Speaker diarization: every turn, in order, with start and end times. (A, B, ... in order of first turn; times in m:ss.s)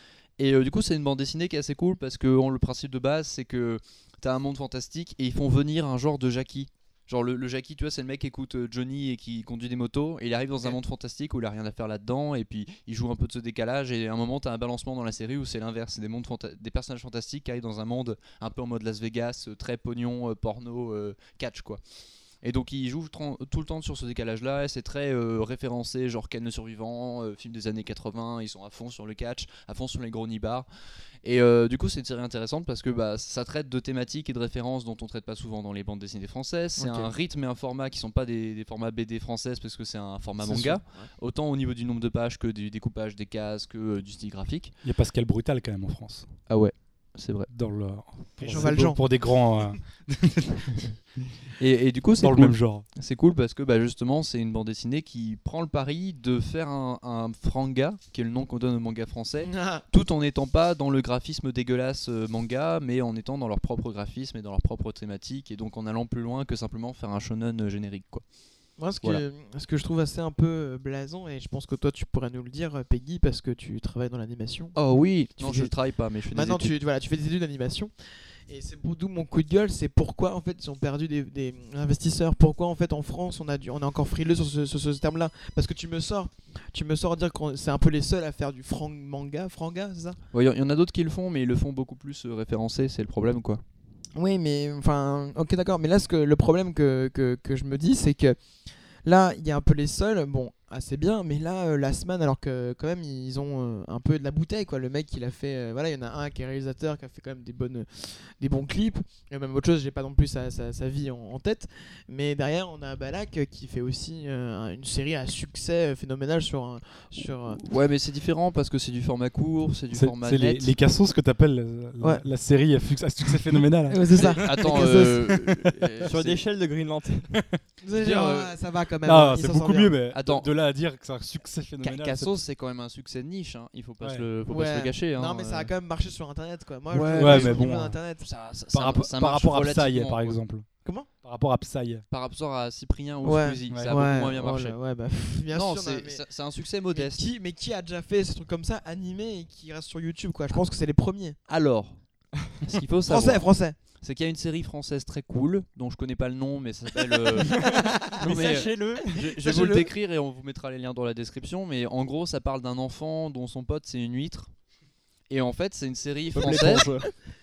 0:00.4-0:21.8 A
0:22.4-0:30.6 A
0:31.2-0:44.7 A
0:36.8-0:37.1 B
0:40.4-0:41.1 B
0:44.8-0:46.3 C
0:46.5-0:47.5 A
0:47.5-0:50.9 C
0:48.4-0:49.0 B
0:48.4-0:48.7 A
0:51.6-1:08.2 A
0:52.2-0:52.8 C
0:59.4-0:59.8 B
1:08.8-1:14.8 B
1:14.7-1:16.7 A
1:15.4-1:15.7 B
1:16.3-1:17.9 B
1:18.5-1:30.2 B
1:30.3-1:33.6 A
1:34.1-1:38.4 B
1:39.0-1:57.6 B
1:57.2-2:00.7 A
1:59.9-2:06.1 C
2:03.9-2:05.2 B
2:04.2-2:06.4 A
2:06.0-2:07.3 D
2:07.3-2:07.6 C
2:07.8-2:09.9 B
2:07.9-2:08.5 A
2:09.0-2:12.3 C
2:10.1-2:10.5 A
2:11.8-2:15.7 A
2:14.0-2:14.3 C
2:14.5-2:18.2 B
2:16.9-2:17.7 A
2:17.0-2:18.0 C
2:18.2-2:20.4 A
2:18.7-2:22.0 C
2:22.1-2:27.3 A
2:23.2-2:26.2 B
2:23.7-2:23.9 C
2:26.9-2:31.4 B
2:31.5-2:32.0 A
2:32.6-2:44.5 A
2:33.1-2:33.8 B
2:37.5-2:39.3 D
2:37.6-2:38.6 B
2:39.4-2:39.9 B
2:45.3-2:46.9 A
2:46.3-2:47.1 D
2:46.6-2:47.1 B